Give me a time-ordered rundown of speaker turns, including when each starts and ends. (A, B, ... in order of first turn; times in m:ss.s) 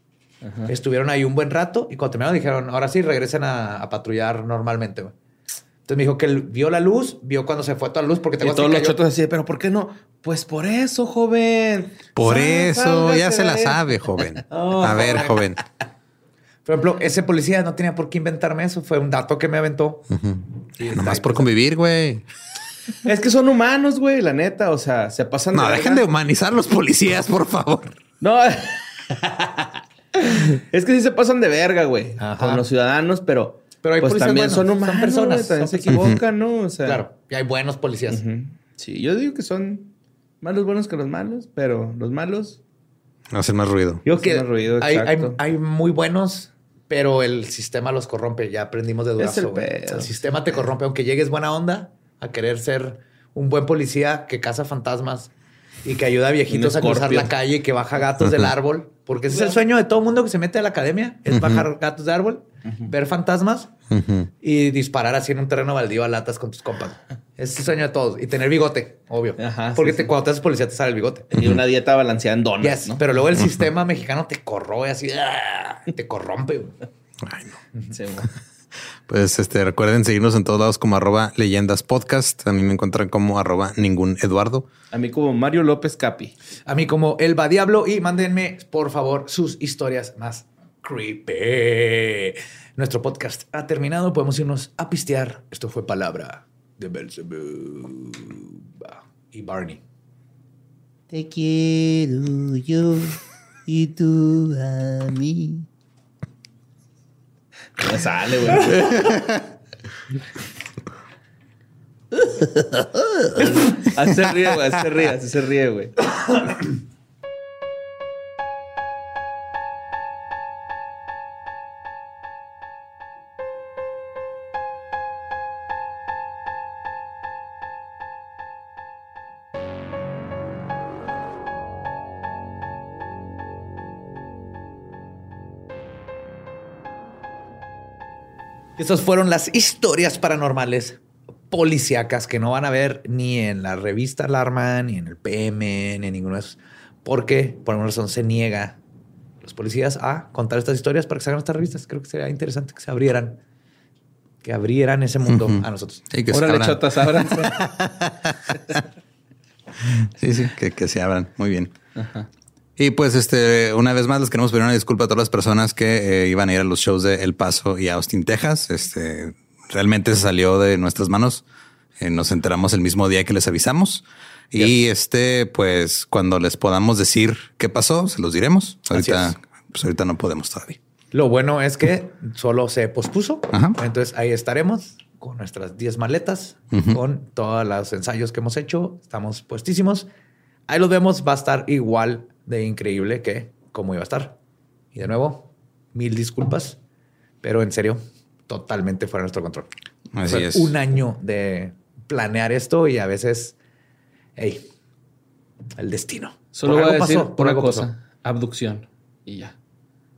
0:00.4-0:00.7 A
0:00.7-0:05.1 B
0:05.8-0:09.0 B
0:08.4-0:13.9 A
0:12.1-0:15.6 C
0:14.5-0:15.4 B
0:16.6-0:20.1 B
0:20.1-0:22.2 C
0:20.8-0:21.5 B
0:23.0-0:26.0 A
0:25.5-0:28.0 C
0:28.2-0:37.0 A
0:32.2-0:32.6 B
0:33.8-0:36.2 B
0:35.9-0:36.2 C
0:36.8-0:38.2 B
0:38.1-0:39.9 A
0:40.4-0:42.6 A
0:43.3-0:44.0 C
0:44.0-0:55.3 B
0:44.2-0:45.4 A
0:49.2-0:50.6 A
0:55.8-1:03.7 B
0:56.5-0:57.3 A
0:58.2-0:58.5 C
1:01.3-1:01.6 C
1:03.9-1:04.3 C
1:04.4-1:11.3 B
1:09.4-1:10.1 A
1:11.3-1:13.0 A
1:12.6-1:16.8 B
1:13.4-1:13.6 C
1:17.2-1:17.5 C
1:17.9-1:18.3 A
1:19.1-1:24.7 C
1:24.9-1:26.3 A
1:26.7-1:39.8 B
1:41.1-1:43.0 A
1:43.7-1:45.5 A
1:47.8-1:49.2 A
1:48.7-1:49.4 C
1:52.1-1:56.1 A
1:53.4-1:53.8 B
2:18.8-2:28.8 B
2:29.4-2:33.4 B
2:34.4-2:36.4 B
2:35.3-2:38.4 C
2:36.3-2:37.6 A
2:39.8-2:41.7 C
2:42.0-2:42.3 A
2:42.8-2:51.4 C
2:52.0-3:00.8 C
2:54.5-2:54.8 B
2:58.9-2:59.4 B
3:01.1-3:10.1 B
3:06.7-3:07.0 C
3:10.7-3:14.4 B
3:14.9-3:16.8 B
3:17.4-3:19.7 B
3:20.1-3:20.7 C
3:20.2-3:23.6 B
3:24.4-3:24.6 B
3:25.8-3:27.9 B
3:26.5-3:29.5 A